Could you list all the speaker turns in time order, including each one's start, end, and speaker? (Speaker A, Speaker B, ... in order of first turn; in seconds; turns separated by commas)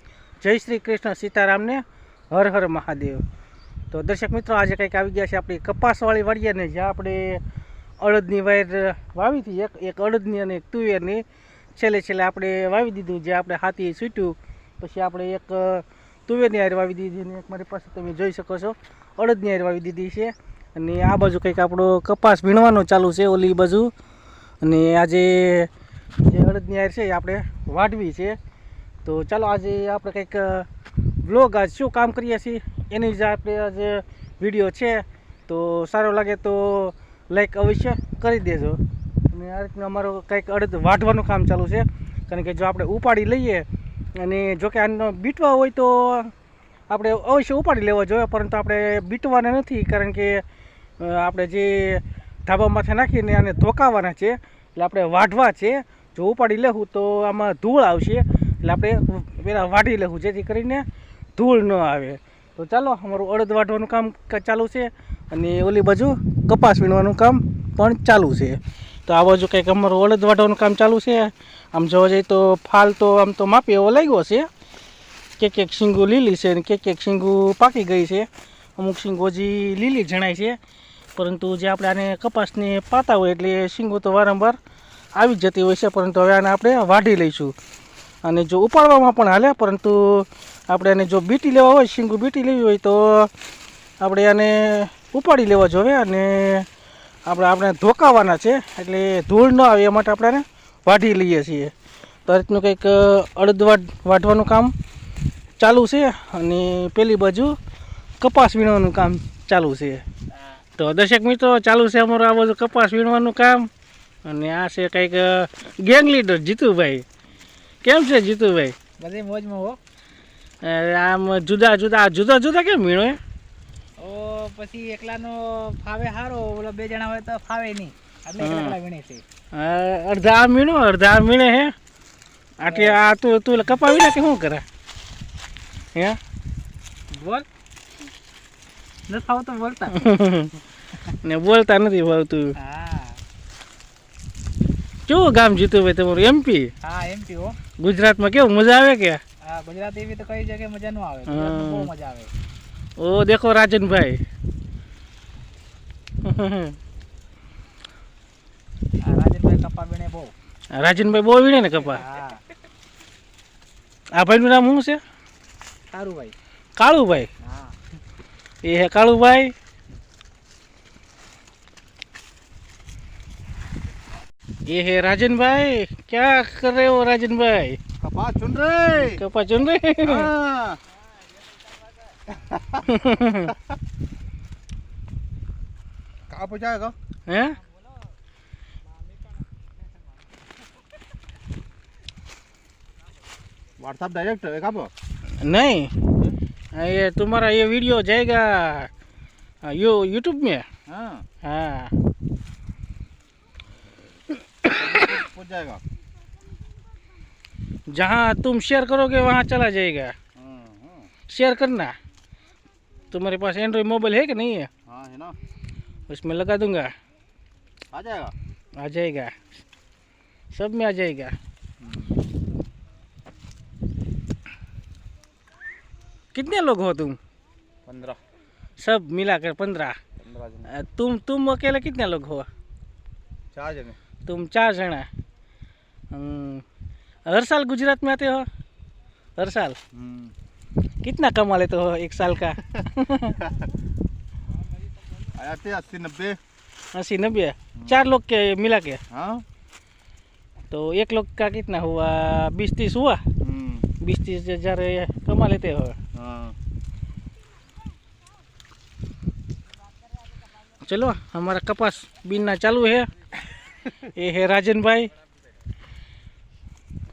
Speaker A: 0.4-3.2, Speaker A: 3.9-7.4, Speaker A: 8.0-11.2, Speaker A: 11.8-23.9, Speaker A: 24.6-25.7, Speaker A: 26.2-28.4, Speaker A: 29.0-30.7, Speaker A: 31.2-46.3, Speaker A: 46.9-50.4, Speaker A: 51.0-60.8, Speaker A: 61.4-74.5, Speaker A: 75.4-80.6, Speaker A: 81.2-84.6, Speaker A: 85.2-87.5, Speaker A: 88.2-93.3, Speaker A: 94.0-96.7, Speaker A: 97.2-101.7, Speaker A: 102.2-104.7, Speaker A: 105.6-107.5, Speaker A: 108.2-110.0, Speaker A: 110.8-113.7, Speaker A: 114.2-117.0, Speaker A: 117.8-118.8, Speaker B: 119.0-119.8, Speaker A: 120.6-123.2, Speaker B: 124.0-129.2, Speaker A: 128.4-128.8, Speaker A: 129.5-131.7, Speaker A: 132.6-134.6, Speaker B: 132.6-133.0, Speaker B: 137.1-137.4, Speaker B: 139.1-140.1, Speaker A: 139.9-140.5, Speaker A: 141.1-142.5, Speaker B: 142.6-143.2, Speaker A: 145.1-146.7, Speaker B: 146.8-147.5, Speaker A: 147.8-149.2, Speaker B: 149.4-152.3, Speaker A: 151.3-151.9, Speaker A: 153.0-154.2, Speaker A: 156.2-156.8, Speaker B: 159.0-160.3, Speaker A: 160.7-162.0, Speaker B: 161.8-162.4, Speaker A: 164.2-165.0, Speaker B: 165.9-166.3, Speaker A: 166.8-167.3, Speaker B: 167.5-167.7, Speaker A: 168.6-169.5, Speaker A: 174.7-177.8, Speaker C: 178.0-179.2, Speaker A: 179.0-180.3, Speaker C: 180.0-180.8, Speaker C: 182.3-182.8, Speaker A: 182.8-183.5, Speaker C: 186.3-186.9, Speaker A: 187.3-187.6, Speaker C: 193.8-194.9, Speaker A: 195.4-196.0, Speaker A: 196.7-198.9, Speaker A: 199.6-200.7, Speaker C: 200.9-201.2, Speaker A: 201.4-202.0, Speaker C: 204.7-205.8, Speaker A: 207.9-210.1, Speaker C: 210.3-211.1, Speaker A: 211.3-211.9, Speaker A: 213.1-214.7, Speaker C: 214.8-215.4, Speaker A: 216.1-216.9, Speaker C: 217.9-218.3, Speaker A: 218.8-219.4, Speaker A: 220.5-221.3, Speaker C: 221.8-222.1, Speaker A: 226.3-227.2, Speaker C: 227.9-228.2, Speaker A: 228.8-230.0, Speaker C: 230.2-230.7, Speaker A: 230.7-232.5, Speaker C: 233.5-234.0, Speaker A: 234.2-235.1, Speaker A: 236.1-236.6, Speaker A: 237.2-238.5, Speaker A: 239.4-239.8, Speaker C: 239.9-240.3, Speaker A: 241.0-243.5, Speaker C: 245.3-246.4, Speaker A: 246.9-249.0, Speaker C: 249.1-249.4, Speaker A: 250.7-253.2, Speaker C: 253.4-253.9, Speaker A: 254.0-256.0, Speaker C: 256.1-256.5, Speaker A: 260.8-263.3, Speaker A: 263.8-265.1